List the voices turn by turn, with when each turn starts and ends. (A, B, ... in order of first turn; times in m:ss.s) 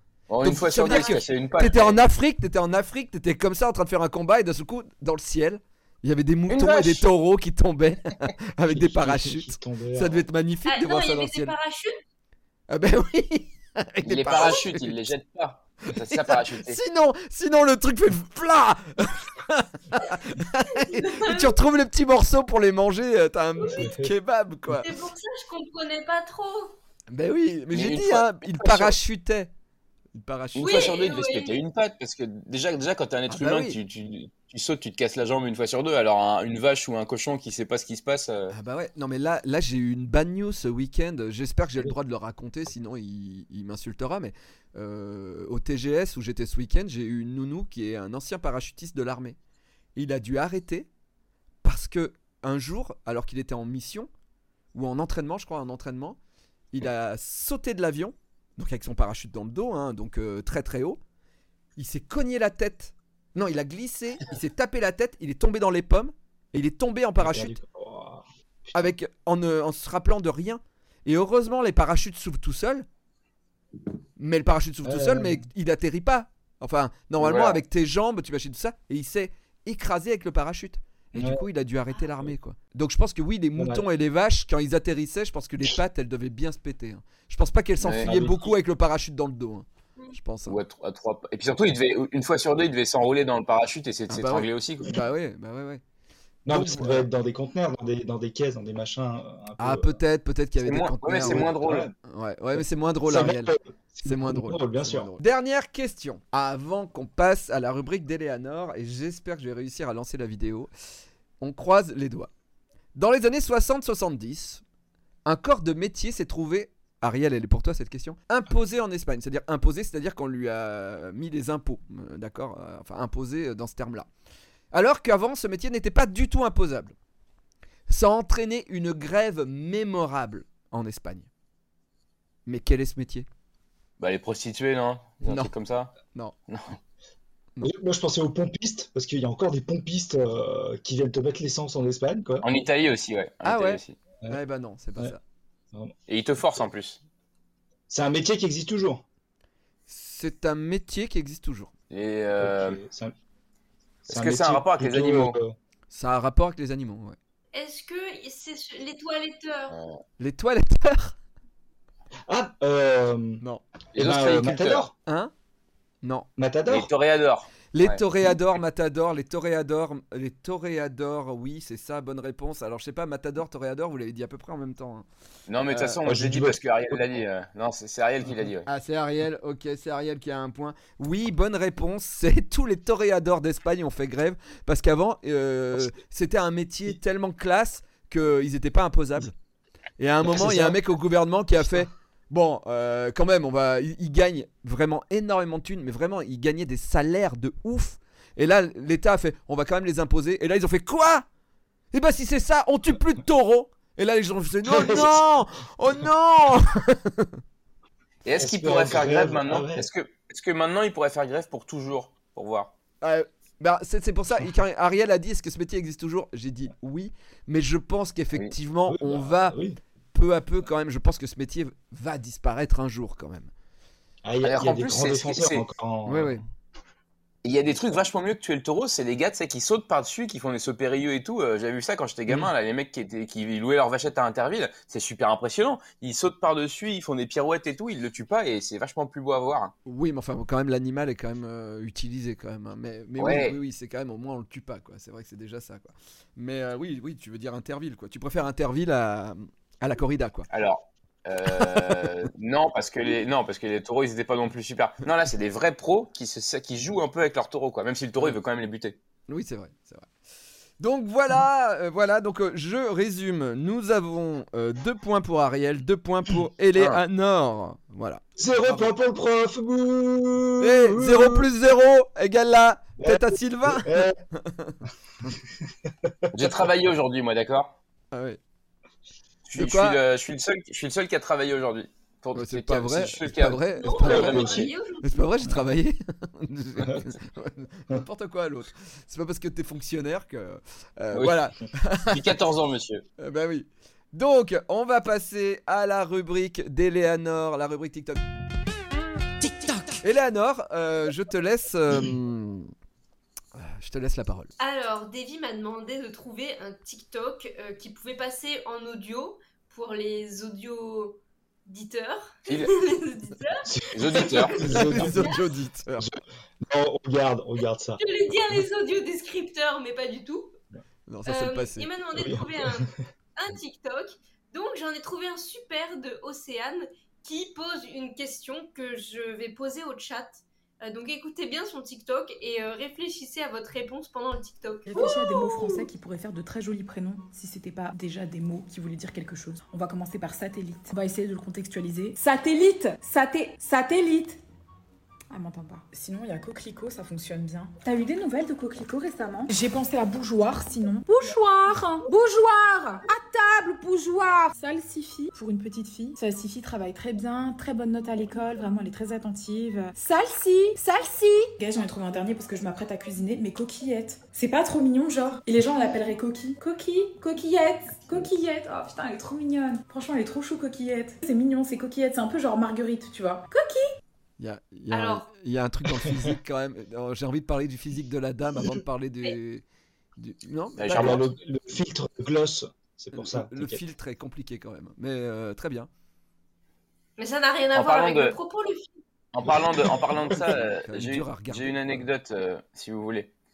0:00.3-0:02.0 A
0:00.4-0:11.5 B
0:06.5-0:07.0 A
0:08.6-0:10.3 C
0:10.6-0:12.0 D
0:12.7-0:15.0 B
0:14.0-0:16.8 A
0:15.9-0:24.9 B
0:20.9-0:21.5 D
0:23.6-0:23.9 D
0:23.6-0:24.1 C
0:24.7-0:26.8 D
0:27.1-0:29.5 B
0:27.7-0:29.0 A
0:30.2-0:30.9 B
0:30.5-0:38.5 A
0:30.6-0:31.6 D
0:33.3-0:33.8 B
0:38.5-0:49.4 B
0:50.0-0:50.9 B
0:51.6-0:54.1 B
0:54.7-0:56.2 B
0:56.7-1:01.0 B
1:01.8-1:07.6 B
1:07.2-1:08.9 C
1:08.7-1:12.8 B
1:14.2-1:30.6 B
1:14.8-1:15.4 C
1:17.2-1:17.6 A
1:21.1-1:21.4 C
1:23.6-1:23.8 C
1:27.8-1:28.2 A
1:28.0-1:28.4 C
1:30.5-1:34.9 A
1:34.1-1:35.8 B
1:36.4-1:40.0 C
1:36.5-1:37.1 B
1:39.6-1:50.7 B
1:40.6-1:41.9 A
1:41.2-1:41.9 C
1:42.6-1:45.1 C
1:51.4-1:52.3 B
1:53.0-1:54.6 B
1:55.2-2:04.1 B
2:04.7-2:06.9 B
2:07.9-2:11.3 B
2:12.4-2:13.3 B
2:14.0-2:15.9 A
2:15.2-2:15.5 B
2:16.5-2:16.8 A
2:17.6-2:22.5 C
2:22.4-2:24.0 A
2:23.4-2:25.2 B
2:26.1-2:27.0 A
2:27.9-2:29.0 C
2:29.9-2:31.7 B
2:31.9-2:32.8 A
2:32.4-2:33.1 C
2:34.1-2:35.5 C
2:34.1-2:35.4 A
2:35.9-2:37.2 B
2:37.5-2:39.7 D
2:39.7-2:40.0 A
2:40.2-2:41.1 B
2:42.3-2:43.4 C
2:44.0-2:44.9 A
2:44.0-2:44.9 C
2:45.0-2:45.3 B
2:46.0-2:46.3 B
2:46.4-2:46.9 C
2:46.7-2:48.0 A
2:47.7-2:55.0 B
2:55.5-2:58.7 A
2:55.6-2:56.0 B
2:56.0-2:57.0 C
2:58.6-3:09.3 B
3:10.0-3:21.2 B
3:10.2-3:10.8 C
3:21.9-3:27.4 B
3:24.6-3:25.2 C
3:28.2-3:32.7 A
3:28.4-3:29.9 C
3:33.0-3:39.6 B
3:38.9-3:39.8 C
3:40.1-3:43.5 B
3:44.2-3:46.4 C
3:44.4-3:45.6 A
3:46.0-3:46.4 B
3:47.4-3:59.7 A
3:59.8-4:10.5 B
4:03.2-4:03.6 A
4:10.5-4:19.0 A
4:11.6-4:12.1 B
4:19.3-4:20.1 B
4:20.8-4:28.9 B
4:26.8-4:27.0 A
4:28.4-4:31.5 C
4:30.6-4:34.8 B
4:33.0-4:34.2 C
4:35.8-4:36.6 C
4:36.3-4:37.7 A
4:38.1-4:38.4 B
4:39.4-4:44.6 A
4:39.5-4:40.0 B
4:42.3-4:52.4 B
4:43.8-4:45.3 D
4:44.0-4:44.7 C
4:52.1-4:53.0 A
4:53.2-4:58.2 B
5:00.0-5:02.7 B
5:03.5-5:04.5 B
5:04.6-5:14.6 D
5:12.5-5:12.7 A
5:13.7-5:15.3 C
5:13.9-5:14.6 A
5:14.7-5:16.1 B
5:16.0-5:18.0 C
5:18.0-5:20.6 D
5:21.1-5:21.9 B
5:21.2-5:35.8 D
5:22.1-5:22.9 C
5:34.9-5:44.4 E
5:45.3-6:13.8 E
6:14.4-6:19.6 B
6:14.9-6:15.3 D
6:16.0-6:16.3 C
6:20.2-6:21.2 B
6:20.8-6:21.2 A
6:20.9-6:23.8 C
6:23.1-6:25.9 B
6:27.2-6:29.0 D
6:27.7-6:28.4 A
6:29.3-6:33.3 A
6:29.5-6:30.4 C
6:30.8-6:32.1 B